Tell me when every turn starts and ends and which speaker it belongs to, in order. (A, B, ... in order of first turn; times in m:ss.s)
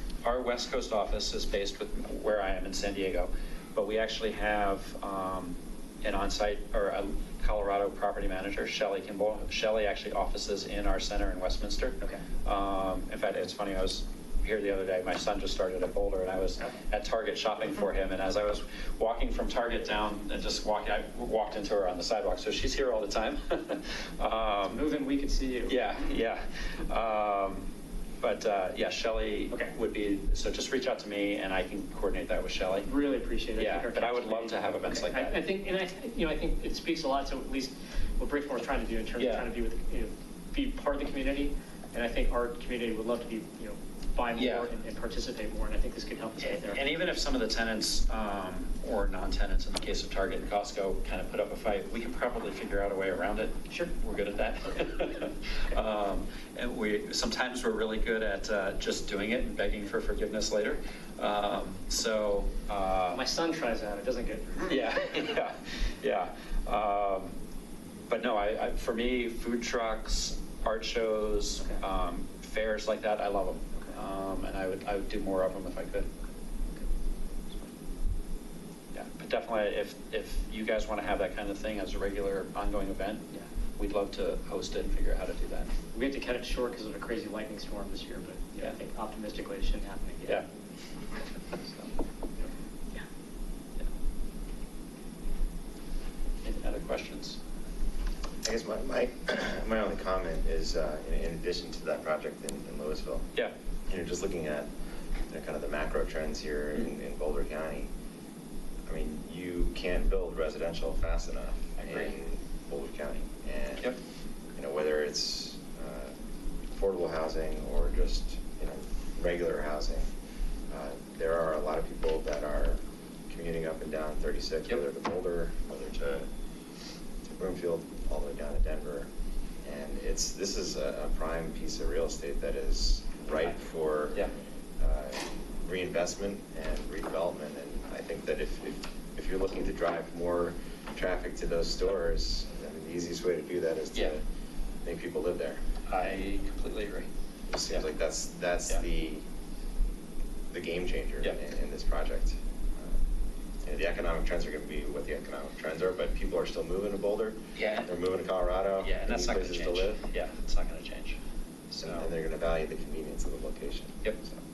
0:00.2-0:24.8 A
0:24.6-0:25.8 B
0:25.7-0:27.6 A
0:28.2-0:32.9 A
0:32.8-0:46.8 B
0:33.6-0:35.4 A
0:39.2-0:39.4 A
0:44.4-0:44.7 A
0:46.4-1:03.2 A
1:03.1-1:04.9 B
1:04.6-1:07.3 A
1:08.1-1:16.1 A
1:18.9-1:25.7 A
1:25.9-1:30.4 B
1:36.4-1:37.4 A
1:38.4-1:43.3 C
1:43.9-1:44.7 C
1:45.3-1:47.9 C
1:48.9-1:53.9 C
1:51.8-1:52.1 A
1:54.6-1:56.1 C
1:56.7-2:00.0 C
2:00.7-2:06.2 C
2:07.2-2:09.1 C
2:09.6-2:14.2 C
2:14.8-2:24.2 C
2:24.8-2:25.6 C
2:25.9-2:27.1 A
2:27.5-2:29.2 C
2:30.5-2:33.0 C
2:33.6-2:40.0 C
2:37.6-2:37.9 A
2:38.8-2:41.2 A
2:41.7-2:42.1 A
2:41.8-2:44.0 C
2:44.0-2:44.3 A